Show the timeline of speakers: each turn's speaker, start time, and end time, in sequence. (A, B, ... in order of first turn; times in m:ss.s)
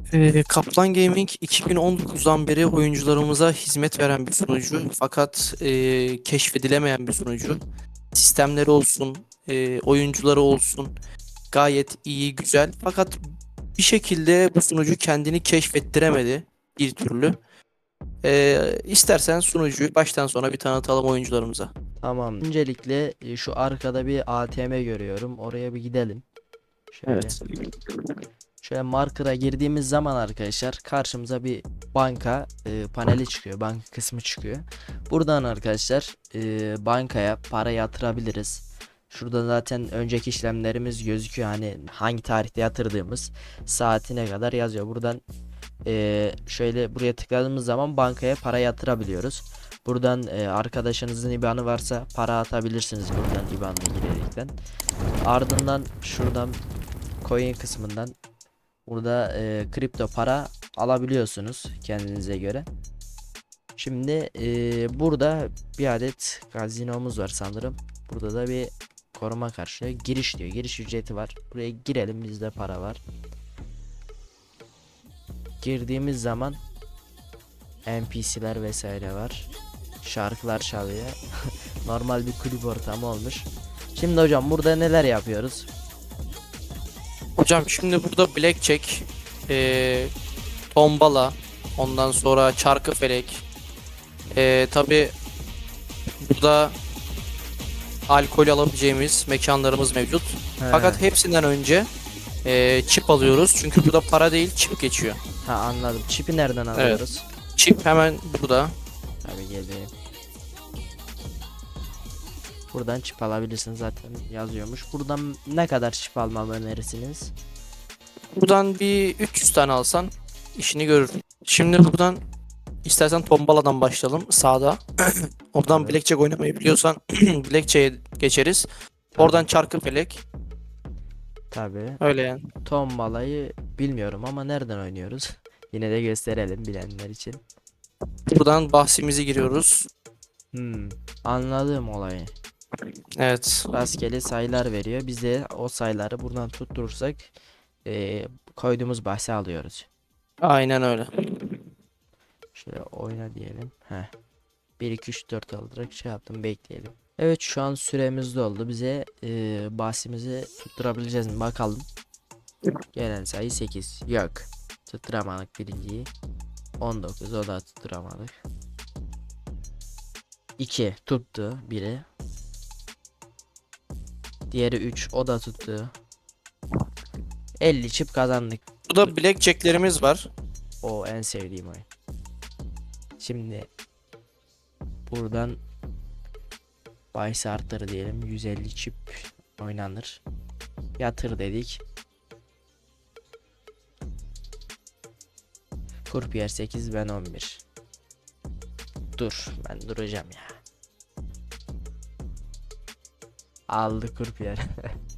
0:00.1-0:07.6 A
0:08.1-0:10.9 A
0:11.5-0:13.2 A
0:13.8-0:17.4 A
0:18.2-0:21.7 A
0:22.0-0:26.2 B
0:26.9-0:27.4 B
0:27.1-0:27.7 A
0:28.6-0:45.2 B
0:45.9-0:54.5 B
0:55.2-0:56.6 B
0:57.2-0:58.2 B
0:58.9-1:02.7 B
1:03.8-1:13.0 B
1:15.6-1:16.6 B
1:17.9-1:19.5 B
1:20.0-1:21.2 B
1:21.8-1:25.7 B
1:27.4-1:30.1 A
1:30.7-1:33.4 A
1:34.3-1:35.2 A
1:36.2-1:36.8 A
1:38.1-1:41.9 A
1:40.6-1:41.0 B
1:42.4-1:45.2 A
1:45.4-1:47.2 B
1:47.6-1:48.8 A
1:49.2-1:49.9 B
1:52.7-1:57.3 B
1:58.4-2:02.2 A
2:02.8-2:08.7 A
2:05.7-2:06.0 B
2:09.2-2:09.5 B
2:09.2-2:10.2 A
2:11.5-2:12.0 B
2:12.0-2:12.4 A
2:12.6-2:17.4 B
2:18.3-2:19.9 A
2:20.5-2:22.3 B
2:23.2-2:23.7 A
2:23.7-2:27.3 B
2:27.9-2:29.9 B
2:30.4-2:31.6 A
2:32.6-2:34.1 B
2:34.8-2:41.9 B
2:42.9-2:46.1 B
2:46.8-2:48.3 B
2:50.6-2:52.1 B
2:54.5-2:55.9 B
2:57.6-2:58.6 B
2:58.9-3:00.3 A
3:00.8-3:01.9 B
3:03.2-3:03.7 B
3:05.1-3:05.6 B
3:07.1-3:10.2 B
3:11.0-3:11.8 B
3:16.1-3:17.6 B
3:19.2-3:20.6 B
3:23.7-3:24.7 B